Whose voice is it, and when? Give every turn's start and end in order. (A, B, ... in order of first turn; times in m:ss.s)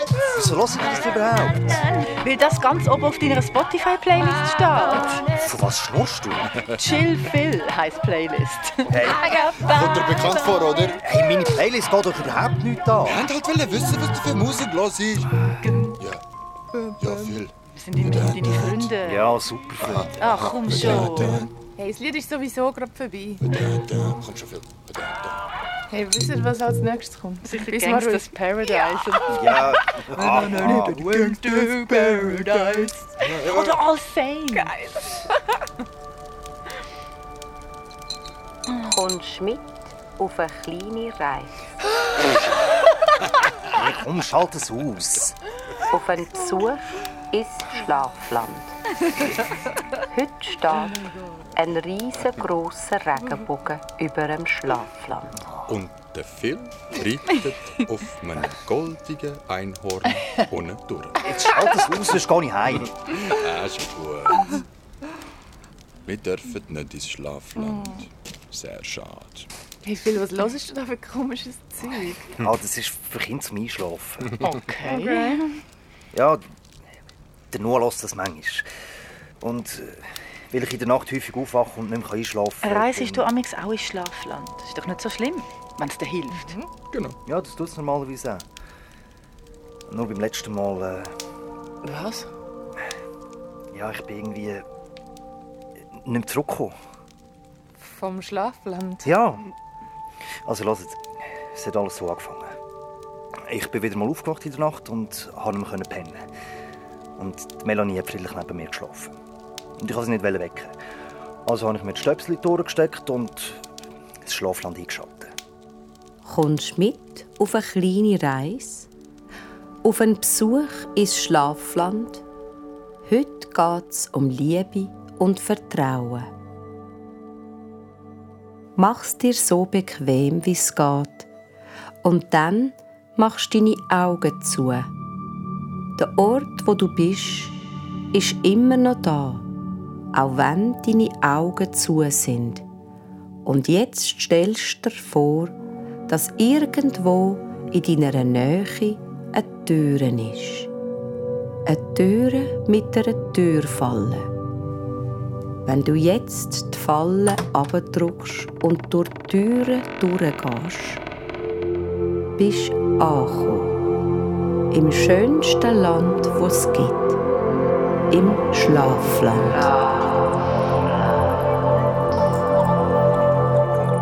0:00.3-0:01.8 A
0:01.7-0:05.3 B
0:05.3-0:06.6 A
0:06.7-0:10.7 B
0:08.9-0:09.3 A
0:09.6-0:11.0 C
0:11.0-0:13.3 A
0:13.0-0:15.3 C
0:15.7-0:15.9 B
0:16.8-0:19.4 B
0:17.0-0:18.9 C
0:19.0-0:20.2 A
0:19.8-0:21.5 C
0:20.2-0:21.5 B
0:21.8-0:23.6 D
0:23.5-0:25.4 C
0:25.9-0:29.6 D
0:27.6-0:28.1 B
0:29.3-0:31.0 A
0:30.2-0:31.5 C
0:30.5-0:34.9 D
0:32.5-0:32.9 B
0:32.8-0:33.8 C
0:38.7-0:41.6 E
0:43.7-0:45.3 A
0:45.9-0:48.7 E
0:50.1-0:51.0 E
0:51.5-0:55.4 E
0:55.6-1:01.2 C
1:01.2-1:03.2 A
1:03.2-1:04.6 C
1:06.0-1:09.5 C
1:09.8-1:12.3 D
1:12.4-1:14.4 A
1:14.4-1:15.4 D
1:16.1-1:16.4 A
1:17.5-1:18.6 A
1:19.4-1:23.3 A
1:22.6-1:26.6 B
1:26.4-1:26.6 D
1:26.9-1:27.2 C
1:27.2-1:28.4 A
1:29.9-1:31.1 A
1:31.8-1:32.3 D
1:33.7-1:34.6 A
1:36.0-1:36.7 A
1:38.0-1:39.0 D
1:39.0-1:39.5 A
1:40.4-1:42.5 A
1:43.4-1:46.2 A
1:47.2-1:49.1 A
1:49.8-1:50.7 A
1:51.4-1:53.6 A
1:54.2-1:55.3 A
1:56.2-1:58.9 E
1:59.8-2:02.2 E
2:03.1-2:06.3 E
2:08.8-2:11.3 E
2:12.0-2:14.9 E
2:16.0-2:17.6 E
2:18.1-2:19.5 E
2:20.1-2:22.6 E
2:23.4-2:25.5 E
2:26.1-2:30.7 E
2:31.7-2:34.3 E
2:35.6-2:41.0 E
2:42.4-2:43.8 E
2:44.7-2:47.2 E
2:48.1-2:49.7 E